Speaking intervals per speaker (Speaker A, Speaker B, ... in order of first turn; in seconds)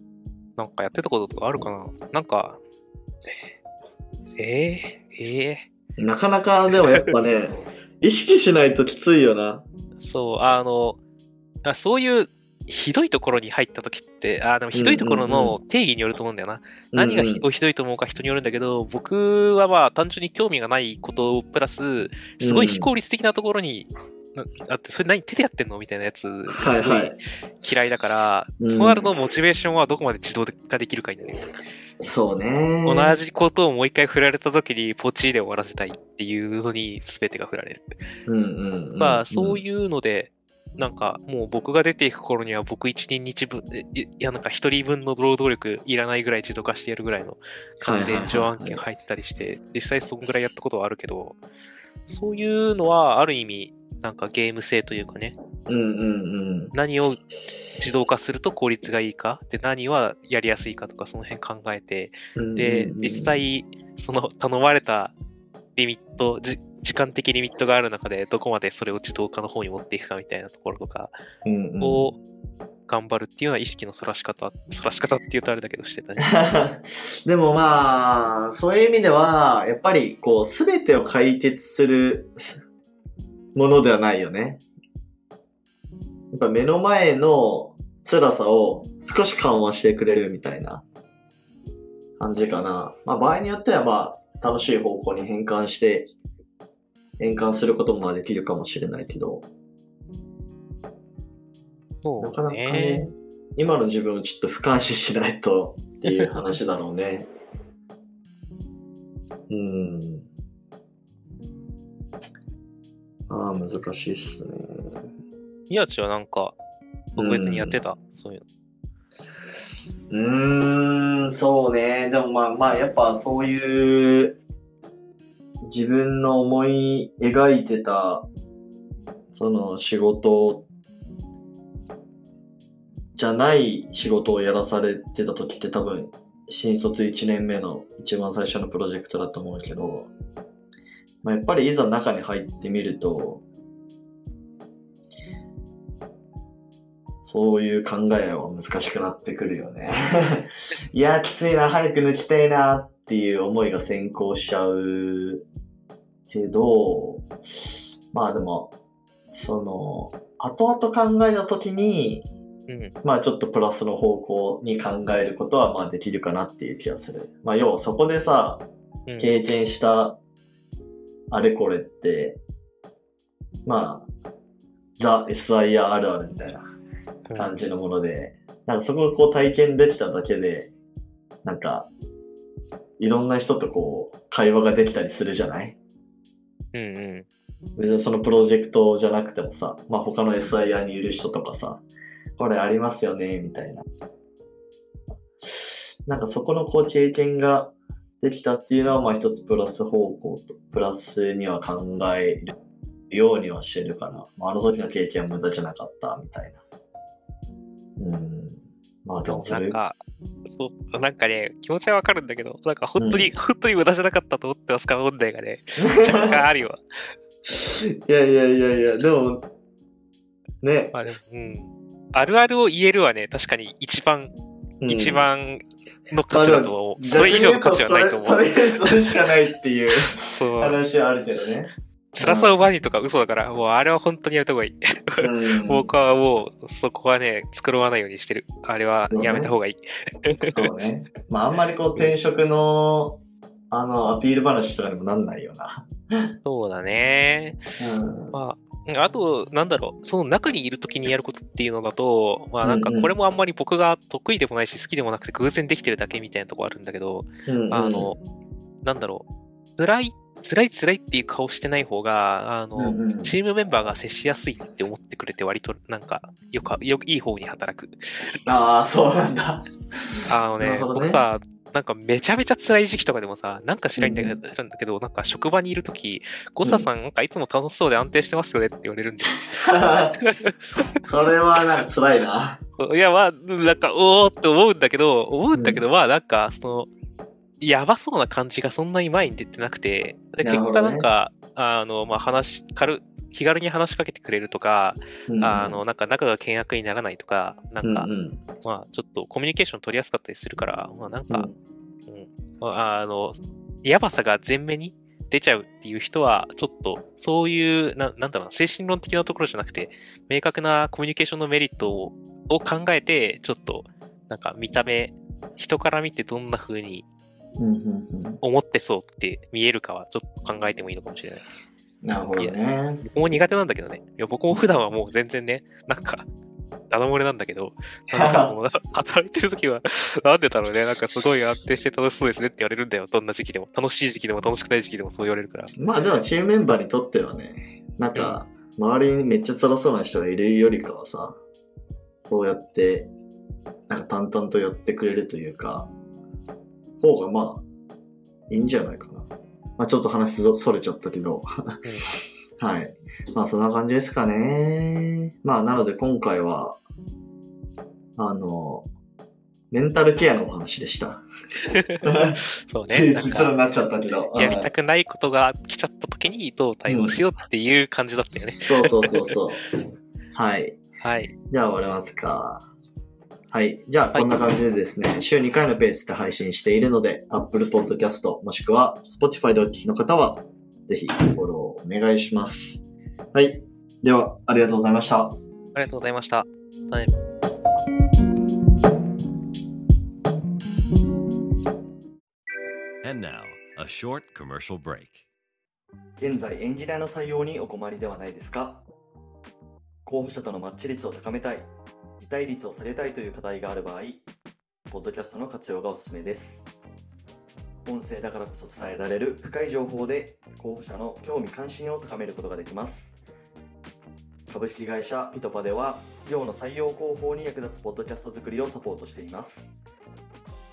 Speaker A: 0.6-2.6, 4.4-5.7, 10.0-11.0, 11.6-31.6, 32.9-37.9, 39.0-51.4, 52.1-55.3, 56.7-57.2, 57.8-65.1, 65.8-71.1, 71.8-72.2, 72.9-76.3, 102.0-103.0, 115.7-116.5, 117.2-118.4, 162.7-162.9, 169.1-169.4, 177.3-177.6, 186.7-187.2, 209.2-210.0, 210.5-216.8, 220.9-224.3, 224.9-229.2, 230.2-230.8, 232.1-240.7, 246.4-247.6, 248.3-258.2, 258.8-259.2, 259.8-268.0, 270.3-280.8, 282.8-286.9, 287.6-298.1, 298.6-301.5, 302.1-317.0, 318.4-321.4, 322.3-326.2, 326.9-335.7, 338.1-338.4, 351.8-352.2, 361.7-362.0, 362.7-363.6, 364.3-369.3, 371.0-371.3, 374.1-374.4, 385.7-387.1
Speaker B: 6.0-9.6, 14.7-15.6, 16.9-17.4, 22.4-22.9, 26.5-27.2, 28.6-29.1, 32.0-33.2, 38.2-39.6, 47.8-48.8, 55.7-56.7, 62.4-63.4, 71.4-72.1, 76.2-82.6, 83.5-84.6, 86.3-90.8, 92.2-96.1, 97.2-99.5, 102.2-107.3, 109.5-110.3, 113.3-115.1, 117.2-117.8, 120.1-124.4, 125.6-128.3, 129.3-130.7, 133.2-140.1, 141.2-143.4, 147.2-155.4, 156.3-158.7, 159.3-162.3, 163.0-168.7, 169.2-170.2, 171.3-172.4, 173.6-174.1, 175.0-176.6, 177.3-180.7, 181.4-181.9, 183.0-185.8, 187.8-191.8, 192.4-193.8, 195.4-202.5, 203.1-206.6, 208.0-209.8, 213.0-213.3, 215.8-216.4, 217.5-219.5, 220.6-221.0, 224.8-225.2, 226.3-232.6, 235.2-235.9, 239.1-239.5, 240.5-245.9, 247.8-248.4, 252.6-253.2, 257.4-258.1, 262.7-263.4, 268.4-271.2, 274.0-274.4, 279.5-280.2, 281.0-282.6, 285.5-285.8, 290.4-291.1, 295.3-295.8, 297.8-298.4, 301.3-301.6, 317.6-318.4, 322.0-323.0, 328.1-328.5, 335.8-341.4, 342.2-343.1, 343.9-345.9, 347.0-347.6, 348.5-351.8, 352.6-356.8, 358.2-358.9, 359.7-361.2, 362.0-364.7, 366.9-367.2, 368.4-369.6, 370.3-370.8, 371.5-372.7, 373.5-385.4, 396.2-398.8, 400.0-404.2, 404.9-406.7, 407.8-413.2, 414.5-419.8
Speaker C: 393.0-395.2